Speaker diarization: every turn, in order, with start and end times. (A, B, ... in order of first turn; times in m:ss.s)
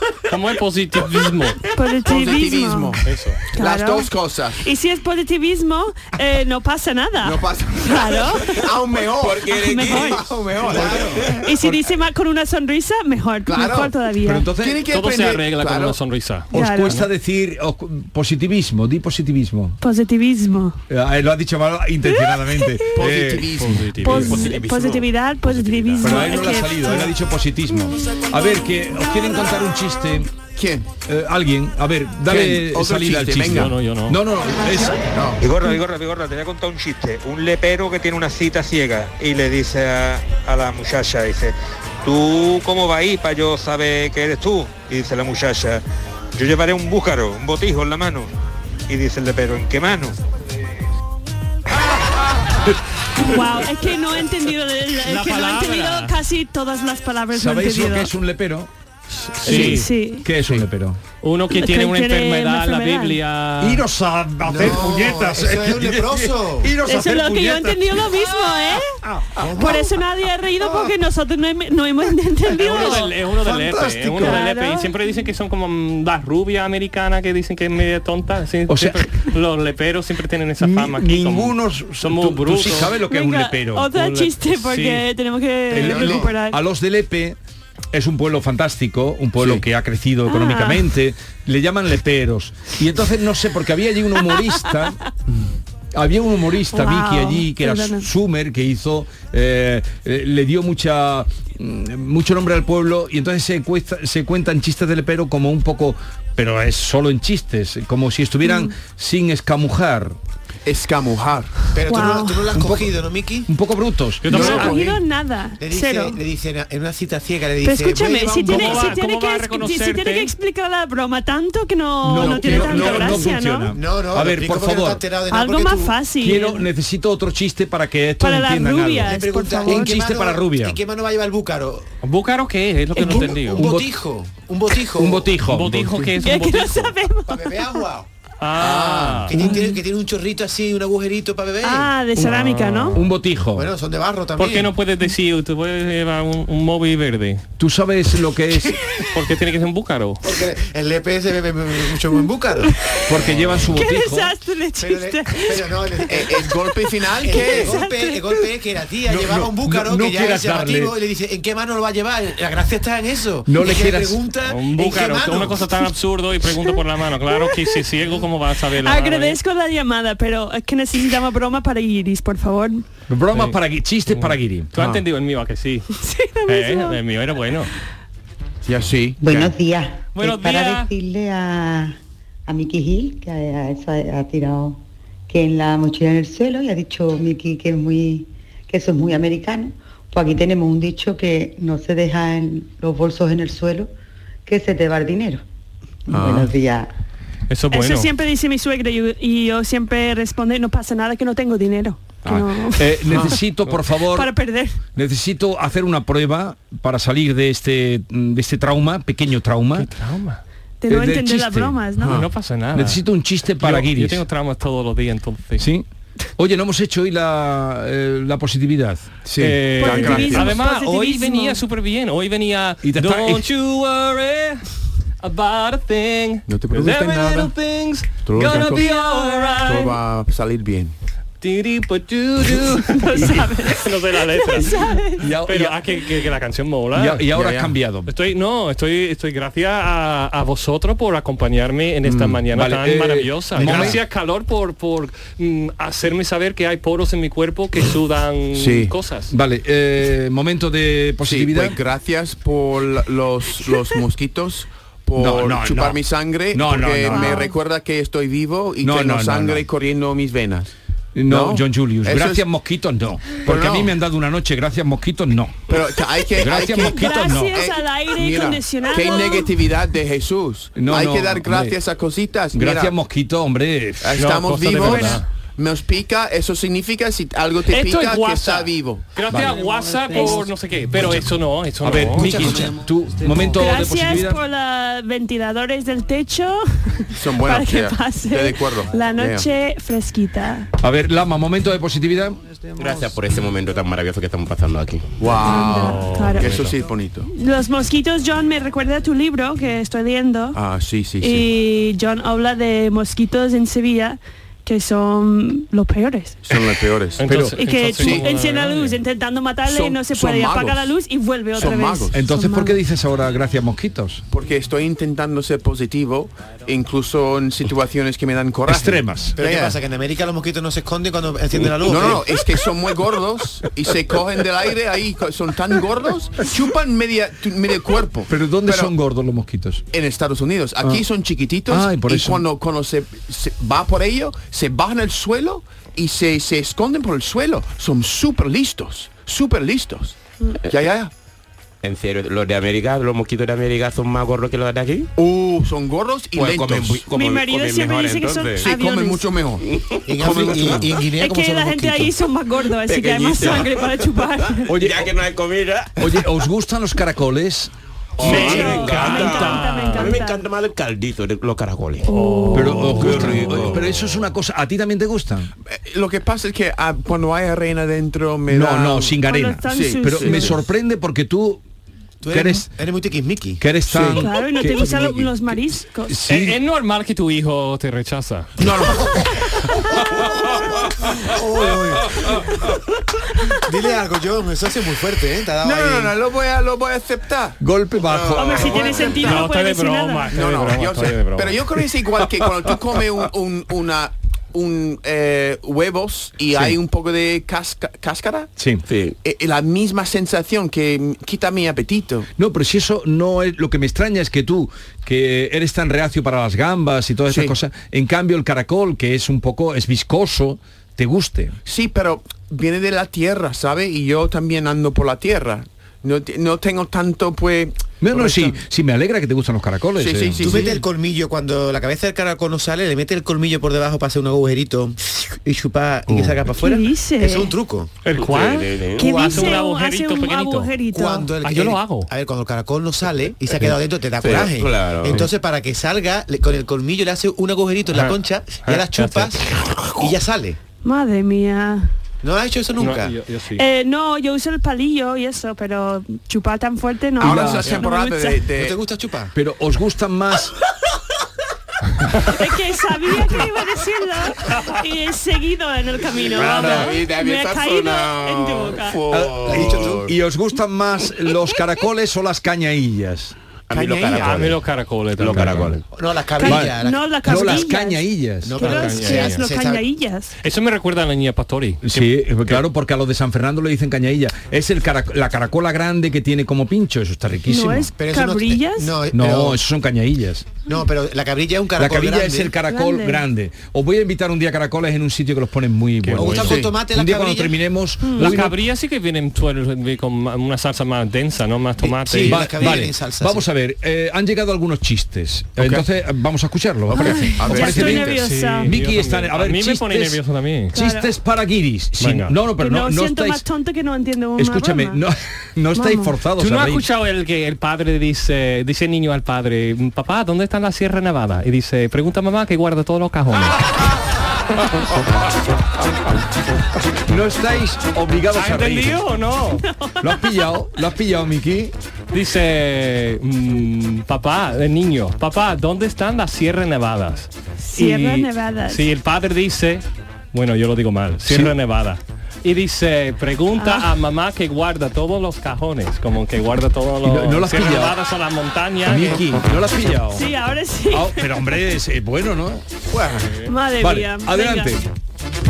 0:00.3-0:01.6 A
0:01.6-0:03.0 B
0:02.0-0:03.0 C
0:03.0-0:03.4 A
0:03.5-0:04.6 C
0:03.5-0:08.7 B
0:07.2-0:11.8 C
0:09.2-0:11.4 D
0:09.6-0:10.4 B
0:10.7-0:11.2 E
0:11.4-0:14.5 B
0:13.4-0:13.9 C
0:14.2-0:14.8 F
0:14.6-0:16.0 C
0:14.9-0:17.1 A
0:16.5-0:17.0 B
0:16.5-0:19.8 F
0:19.8-0:20.8 B
0:20.9-0:23.5 F
0:22.0-0:22.9 B
0:22.9-0:24.7 C
0:23.6-0:24.7 A
0:24.0-0:27.1 B
0:24.6-0:25.0 D
0:25.4-0:26.4 A
0:26.0-0:30.3 F
0:30.5-0:30.9 C
0:31.0-0:35.0 F
0:32.3-0:33.7 C
0:33.5-0:34.2 A
0:35.1-0:35.4 C
0:35.4-0:45.8 G
0:46.4-0:48.3 G
0:48.9-0:50.2 G
0:53.2-0:58.1 B
0:55.0-0:56.1 A
0:57.3-0:58.7 F
0:59.4-0:59.9 A
0:59.4-1:01.0 F
0:59.4-0:59.8 C
0:59.6-1:00.3 B
1:01.2-1:03.8 A
1:01.5-1:03.2 B
1:03.6-1:08.2 F
1:04.4-1:06.8 E
1:06.8-1:09.0 B
1:09.4-1:09.9 E
1:09.6-1:13.2 B
1:12.6-1:22.9 A
1:13.4-1:14.4 F
1:14.1-1:15.0 B
1:18.7-1:19.0 F
1:20.6-1:23.9 F
1:23.0-1:26.6 B
1:23.9-1:25.0 A
1:25.7-1:27.4 F
1:25.7-1:26.3 C
1:27.9-1:35.0 F
1:29.4-1:29.6 C
1:30.2-1:30.9 B
1:35.9-1:50.2 F
1:36.7-1:38.1 B
1:48.4-1:48.7 B
1:50.6-1:51.6 C
1:51.7-1:53.5 E
1:51.9-1:52.5 B
1:52.5-1:52.9 F
1:53.5-1:54.6 F
1:54.2-1:54.8 A
1:54.3-1:56.2 B
1:54.3-1:54.8 E
1:54.5-1:54.9 C
1:55.6-1:58.9 E
1:57.6-2:03.7 B
1:58.4-2:00.3 A
2:02.0-2:05.0 F
2:02.4-2:03.0 C
2:02.7-2:03.1 A
2:03.7-2:06.0 E
2:05.3-2:06.7 B
2:06.2-2:10.8 F
2:08.2-2:10.1 B
2:09.0-2:11.8 E
2:12.0-2:13.6 A
2:13.0-2:15.3 E
2:13.5-2:13.9 F
2:15.0-2:16.1 F
2:15.4-2:16.9 A
2:16.2-2:17.8 B
2:17.3-2:18.1 E
2:18.4-2:19.4 A
2:18.6-2:19.3 C
2:19.3-2:21.9 E
2:21.6-2:23.0 B
2:22.2-2:23.0 A
2:22.9-2:23.7 F
2:23.5-2:24.7 E
2:24.4-2:27.4 A
2:27.6-2:28.8 F
2:29.1-2:30.2 A
2:30.2-2:32.7 E
2:32.8-2:33.1 B
2:33.1-2:34.4 F
2:33.7-2:36.3 B
2:34.8-2:36.4 E
2:36.1-2:37.8 C
2:37.2-2:38.4 B
2:37.2-2:45.6 E
2:39.1-2:40.9 F
2:43.5-2:44.2 F
2:44.4-2:49.4 A
2:47.3-2:47.8 B
2:48.8-2:52.8 B
2:53.1-2:54.7 F
2:53.3-2:55.9 A
2:55.9-2:57.0 B
2:56.4-2:57.7 A
2:58.6-2:59.5 C
2:59.2-3:13.9 H
3:00.1-3:00.9 A
3:14.4-3:15.4 H
3:16.1-3:16.9 H
3:16.1-3:16.5 C
3:17.5-3:18.1 A
3:17.7-3:23.4 B
3:22.8-3:24.3 F
3:24.0-3:24.8 B
3:24.9-3:29.9 F
3:29.7-3:30.4 A
3:30.8-3:32.2 B
3:30.9-3:31.8 F
3:32.0-3:33.0 A
3:32.0-3:32.2 C
3:32.7-3:34.2 F
3:33.6-3:35.7 A
3:35.6-3:35.8 F
3:36.4-3:39.1 F
3:39.2-3:40.6 C
3:39.4-3:44.6 A
3:39.8-3:41.6 B
3:42.8-3:43.4 F
3:45.2-3:50.0 A
3:46.5-3:47.5 C
3:48.2-3:50.9 C
3:48.8-3:49.5 B
3:51.4-3:57.4 A
3:52.9-3:55.3 B
3:55.2-3:55.8 F
3:56.9-3:58.1 F
3:57.3-3:57.7 C
3:58.0-4:09.3 A
4:02.1-4:02.4 C
4:02.5-4:04.0 F
4:03.6-4:04.0 C
4:08.5-4:08.9 C
4:09.3-4:11.8 F
4:11.2-4:20.7 C
4:15.2-4:16.0 F
4:16.5-4:17.5 F
4:17.1-4:17.5 B
4:18.8-4:19.6 F
4:21.1-4:25.7 F
4:21.3-4:22.4 C
4:23.4-4:24.0 C
4:25.7-4:33.0 C
4:26.3-4:27.6 F
4:26.7-4:29.5 B
4:30.8-4:31.8 F
4:32.5-4:35.0 F
4:34.0-4:39.1 C
4:34.2-4:35.2 A
4:34.9-4:35.2 B
4:37.7-4:42.5 A
4:39.3-4:39.6 F
4:40.1-4:40.4 B
4:41.8-4:44.4 F
4:42.2-4:42.8 E
4:43.5-4:50.7 B
4:47.2-4:49.5 C
4:50.8-4:52.4 F
4:52.8-4:55.2 D
4:55.2-4:57.3 C
4:55.4-4:56.7 B
4:55.5-4:56.7 A
4:57.3-5:00.6 B
5:00.5-5:01.5 C
5:01.2-5:06.4 B
5:06.4-5:07.3 C
5:07.2-5:09.0 A
5:07.2-5:07.5 F
5:07.6-5:12.8 B
5:08.0-5:08.3 C
5:09.6-5:11.0 C
5:11.5-5:12.2 C
5:12.1-5:14.2 F
5:14.3-5:19.8 C
5:18.7-5:19.4 F
5:19.4-5:22.3 E
5:21.7-5:28.9 C
5:28.3-5:29.8 F
5:29.9-5:41.1 C
5:31.7-5:32.4 F
5:41.8-5:45.1 D
5:45.2-5:47.1 C
5:46.4-5:47.0 F
5:47.1-5:48.7 D
5:47.1-5:49.2 B
5:48.6-5:50.9 C
5:49.7-5:50.9 D
5:50.0-5:52.1 E
5:51.2-5:54.7 B
5:52.8-5:56.3 D
5:54.7-5:55.1 F
5:56.0-5:57.7 F
5:58.2-6:02.1 D
5:58.2-6:00.1 A
5:58.2-6:00.4 B
5:58.3-5:58.7 F
6:02.0-6:03.2 B
6:02.2-6:03.2 A
6:02.5-6:05.5 F
6:02.9-6:03.8 D
6:05.6-6:09.2 C
6:08.5-6:11.6 F
6:09.2-6:10.6 B
6:09.7-6:10.6 C
6:12.2-6:13.6 E
6:12.3-6:12.7 F
6:13.6-6:16.6 F
6:13.9-6:14.3 C
6:14.0-6:16.3 B
6:16.2-6:18.5 A
6:18.7-6:19.2 E
6:21.0-6:22.4 E
6:23.5-6:26.1 E
6:25.6-6:29.4 C
6:27.6-6:29.1 F
6:28.3-6:30.5 B
6:29.2-6:31.6 A
6:30.3-6:38.5 C
6:36.5-6:36.8 F
6:38.6-6:38.8 F
6:38.9-6:39.1 D
6:39.2-6:42.3 C
6:42.4-6:51.6 F
6:47.3-6:47.5 C
6:51.6-6:58.6 C
6:58.0-7:00.6 F
7:00.0-7:00.8 C
7:00.4-7:07.9 E
7:06.5-7:07.5 B
7:08.0-7:10.7 A
7:08.1-7:09.0 D
7:09.0-7:11.3 B
7:09.0-7:09.6 E
7:10.9-7:20.6 E
7:11.4-7:12.1 A
7:14.2-7:15.2 D
7:17.9-7:19.4 A
7:20.8-7:21.9 B
7:22.2-7:23.1 E
7:22.8-7:23.6 A
7:23.6-7:28.4 B
7:27.2-7:27.7 F
7:27.2-7:28.8 C
7:28.6-7:29.3 E
7:29.3-7:30.5 F
7:32.2-7:39.0 B
7:36.2-7:40.1 D
7:36.4-7:36.9 F
7:39.1-7:43.3 F
7:43.7-7:44.6 D
7:43.8-7:44.3 C
7:44.1-7:45.8 A
7:45.2-7:45.8 D
7:45.3-7:45.7 F
7:45.9-7:47.6 E
7:46.4-7:50.3 B
7:46.4-7:48.7 F
7:48.4-7:49.8 E
7:48.6-7:49.4 A
7:50.4-7:52.6 A
7:51.8-7:57.9 F
7:57.5-7:59.0 B
7:58.0-7:59.6 E
7:59.1-8:00.6 F
8:00.6-8:02.5 E
8:01.8-8:08.6 F
8:02.6-8:03.2 B
8:06.0-8:06.5 A
8:06.2-8:07.6 E
8:06.4-8:06.7 C
8:08.0-8:08.4 B
8:08.2-8:12.8 A
8:11.8-8:13.4 E
8:12.2-8:20.2 F
8:15.6-8:15.9 C
8:16.9-8:18.1 C
8:16.9-8:18.8 B
8:17.9-8:20.8 A
8:20.7-8:21.1 B
8:20.7-8:23.4 F
8:22.0-8:22.4 A
8:22.6-8:25.0 B
8:24.4-8:26.8 F
8:25.7-8:26.1 B
8:26.4-8:33.6 A
8:37.1-8:39.0 F
8:38.3-8:39.6 A
8:39.7-8:40.4 B
8:40.0-8:41.7 F
8:42.1-8:59.2 A
8:47.6-8:48.9 B
8:51.2-8:51.5 F
8:53.6-8:53.9 B
8:57.0-8:58.0 F
8:58.8-9:00.2 F
9:00.1-9:01.6 B
9:00.9-9:02.6 F
9:03.4-9:04.7 B
9:03.8-9:04.8 F